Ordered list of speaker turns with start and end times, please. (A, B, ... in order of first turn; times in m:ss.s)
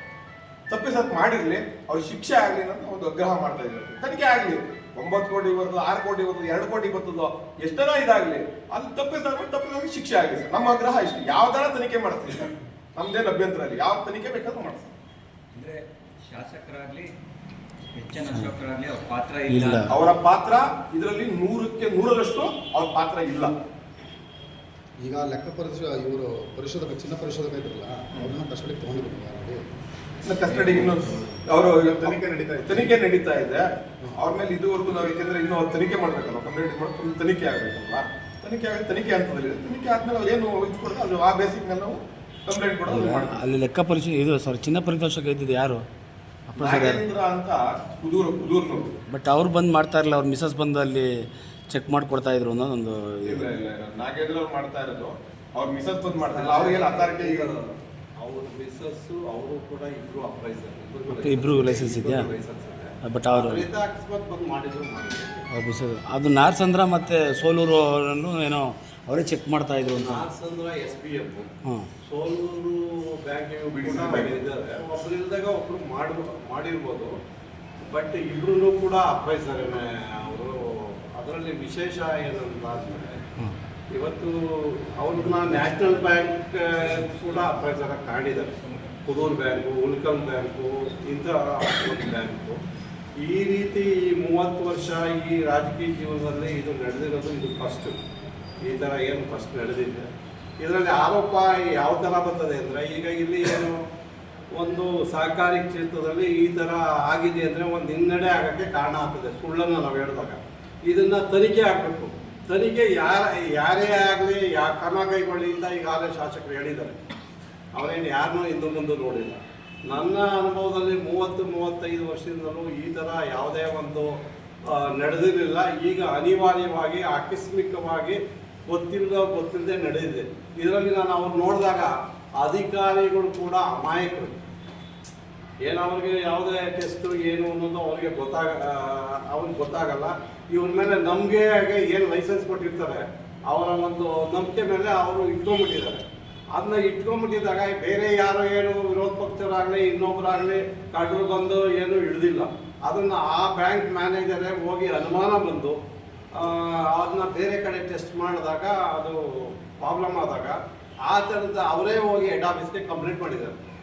0:00.7-0:14.9 A
0:15.5-0:17.1 B
0:18.0-0:19.9 B
0:19.5-0:19.9 C
0:19.9-0:23.5 A
0:25.0-0:29.6 D
0:30.2-0:43.4 A
0:30.7-0:31.0 D
0:31.7-0:32.9 D
0:42.9-0:45.8 C
0:46.5-0:47.0 C
0:46.6-0:48.9 A
0:49.1-0:53.4 C
0:53.2-0:57.5 A
0:56.3-1:05.5 E
1:01.1-1:02.3 C
1:03.0-1:03.7 C
1:05.5-1:10.3 C
1:10.0-1:11.5 E
1:11.6-1:11.9 C
1:12.0-1:17.1 E
1:13.7-1:14.3 A
1:17.8-1:23.2 E
1:23.9-1:32.6 E
1:33.2-1:38.0 E
1:38.6-1:40.1 E
1:40.6-1:43.8 E
1:44.5-1:57.0 E
1:57.7-2:14.4 E
2:15.6-2:35.8 E
2:36.3-2:43.6 E